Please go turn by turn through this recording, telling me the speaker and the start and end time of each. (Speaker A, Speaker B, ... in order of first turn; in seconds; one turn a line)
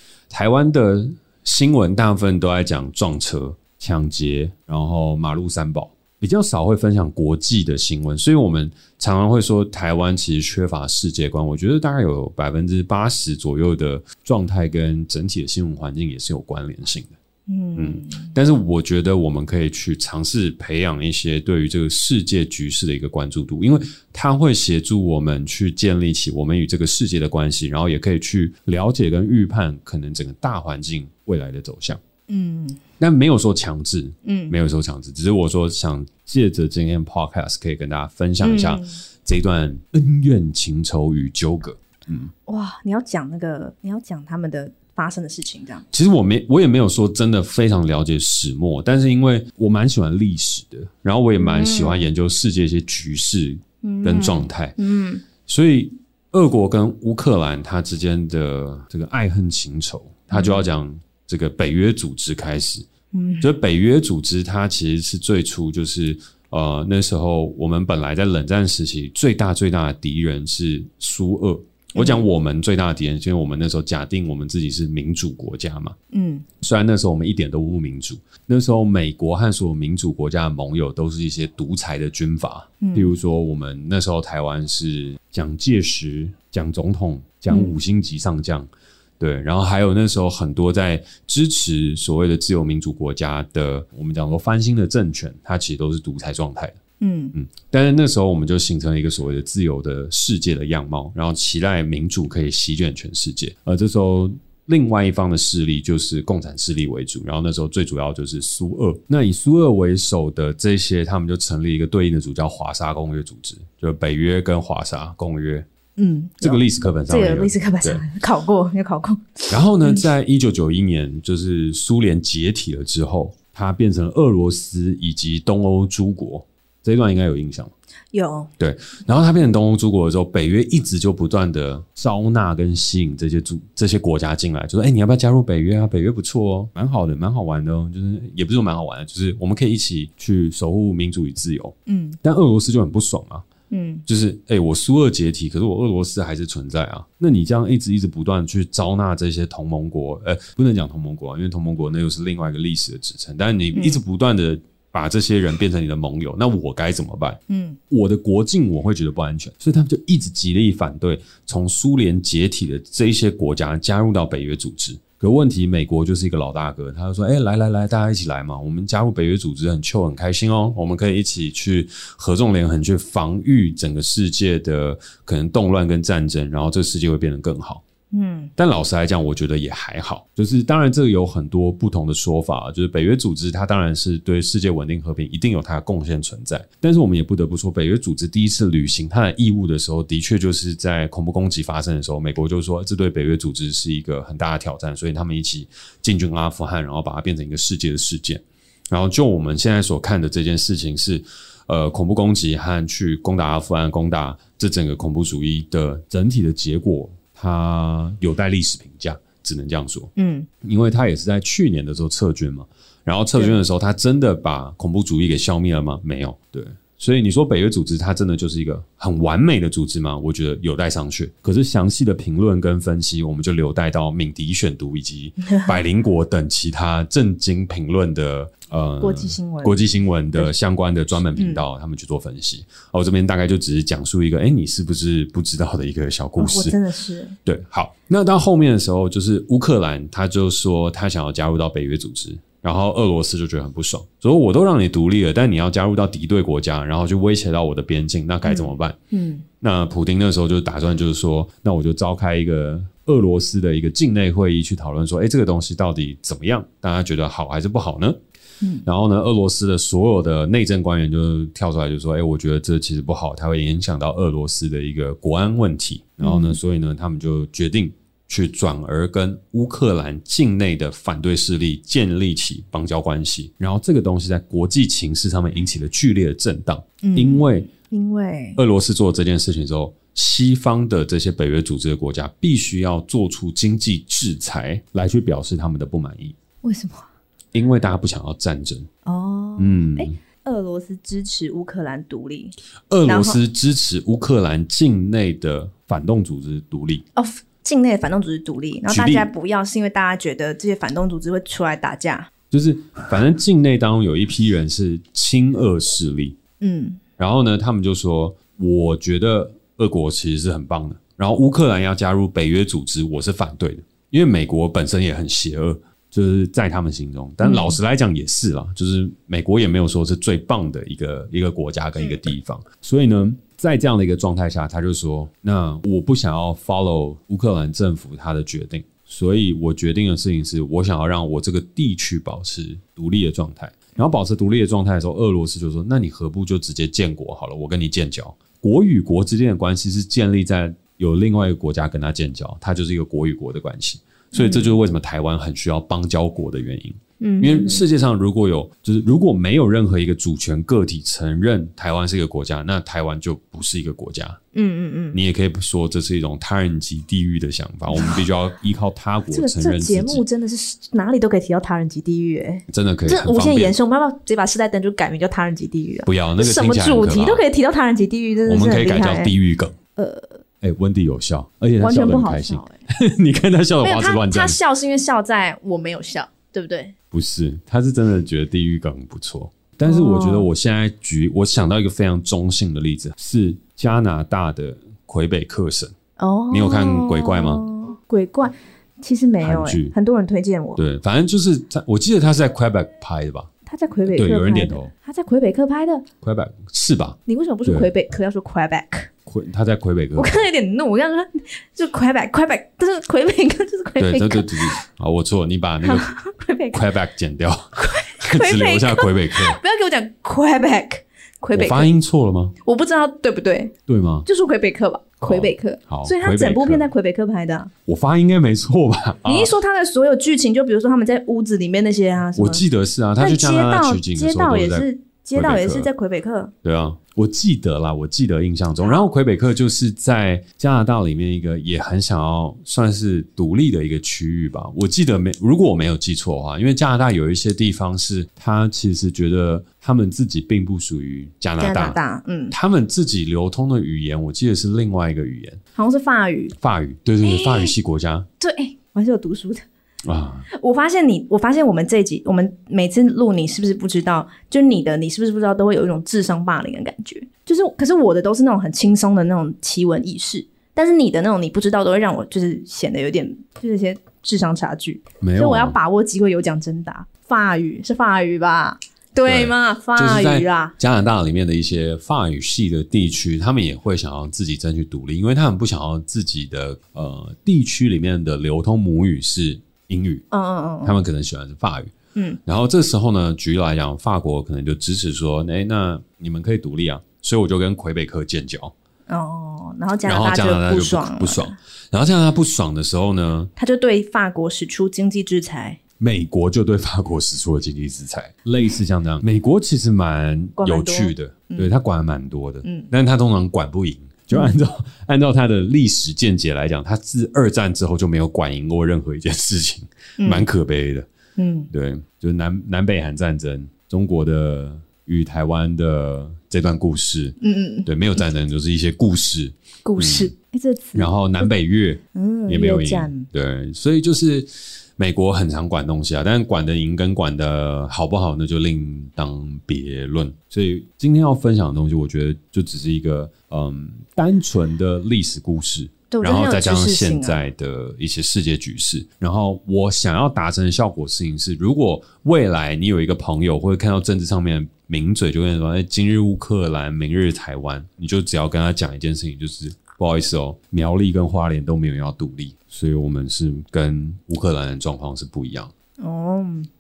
Speaker A: 0.3-17.1
Speaker B: 17.5-18.3
Speaker A: 17.8-32.0
Speaker B: 32.3-32.8
Speaker A: 33.0-42.3
Speaker B: 34.2-34.6
Speaker B: 38.4-39.0
Speaker B: 42.5-45.9
Speaker A: 45.9-54.8
Speaker B: 51.4-52.1
Speaker B: 53.8-55.2
Speaker A: 55.4-62.9
Speaker B: 60.3-60.7
Speaker B: 63.1-63.5
Speaker A: 63.4-76.0
Speaker B: 72.0-72.3
Speaker B: 76.1-76.5
Speaker A: 76.6-96.8
Speaker B: 82.8-83.2
Speaker B: 87.5-87.8
Speaker B: 97.0-97.3
Speaker A: 97.3-115.7
Speaker B: 116.0-120.0
Speaker A: 116.4-118.0
Speaker A: 119.5-127.7
Speaker B: 128.1-128.5
Speaker A: 128.6-143.5
Speaker B: 141.9-142.2
Speaker B: 143.7-144.1
Speaker A: 144.1-177.8
Speaker B: 153.7-154.0
Speaker B: 157.5-157.8
Speaker B: 178.1-178.5
Speaker A: 178.6-236.8
Speaker B: 210.2-210.5
Speaker B: 229.0-230.5
Speaker B: 231.3-231.6
Speaker B: 236.4-237.4
Speaker A: 237.4-249.0
Speaker B: 248.4-249.4
Speaker A: 249.6-258.2
Speaker B: 258.6-258.9
Speaker A: 258.9-277.7
Speaker B: 266.2-266.6
Speaker B: 277.0-278.6
Speaker A: 278.6-286.4
Speaker B: 286.6-287.1
Speaker A: 287.5-288.9
Speaker B: 289.1-293.4
Speaker A: 289.6-290.2
Speaker A: 292.9-297.0
Speaker B: 297.2-302.3
Speaker A: 298.9-299.3
Speaker A: 302.5-306.4
Speaker B: 306.6-307.0
Speaker A: 307.2-354.4
Speaker B: 317.4-317.8
Speaker B: 344.3-344.8
Speaker B: 347.2-347.8
Speaker B: 354.5-355.2
Speaker A: 355.1-360.2
Speaker B: 357.9-358.2
Speaker B: 359.3-369.3
Speaker A: 362.7-363.8
Speaker A: 366.1-367.4
Speaker A: 368.5-369.8
Speaker B: 370.0-370.4
Speaker A: 370.6-374.6
Speaker B: 371.8-372.8
Speaker B: 373.8-376.9
Speaker A: 377.1-385.9
Speaker B: 379.9-380.5
Speaker B: 386.2-390.8
Speaker A: 386.5-387.7
Speaker A: 389.4-389.9
Speaker A: 390.8-393.5
Speaker B: 393.7-396.1
Speaker A: 394.1-394.9
Speaker A: 396.2-397.9
Speaker B: 397.3-399.1
Speaker A: 399.3-400.4
Speaker B: 400.2-404.8
Speaker A: 404.0-406.1
Speaker B: 405.8-406.8
Speaker A: 406.7-409.6
Speaker B: 407.8-411.9
Speaker A: 411.5-412.6
Speaker B: 412.6-413.7
Speaker A: 413.9-414.3
Speaker B: 414.3-417.7
Speaker A: 415.2-416.9
Speaker A: 417.9-419.5
Speaker B: 419.3-422.6
Speaker A: 422.4-425.9
Speaker B: 423.2-426.5
Speaker A: 426.6-442.0
Speaker B: 441.6-442.5
Speaker A: 442.5-445.6
Speaker B: 445.8-446.6
Speaker A: 446.6-448.3
Speaker B: 447.2-447.7
Speaker B: 448.4-449.6
Speaker A: 450.0-450.5
Speaker B: 450.5-470.8
Speaker A: 465.2-465.8
Speaker A: 469.3-480.2
Speaker B: 480.3-481.0
Speaker A: 480.8-481.9
Speaker A: 482.4-488.7
Speaker B: 489.1-491.6
Speaker A: 490.1-493.5
Speaker B: 493.6-495.8
Speaker A: 496.0-511.1
Speaker B: 500.6-501.7
Speaker B: 502.6-502.9
Speaker B: 504.3-504.6
Speaker B: 510.2-510.5
Speaker B: 511.4-511.7
Speaker A: 511.7-520.3
Speaker B: 517.4-518.2
Speaker B: 519.9-521.5
Speaker A: 521.0-555.7
Speaker B: 522.1-523.3
Speaker B: 536.1-537.4
Speaker B: 556.0-556.7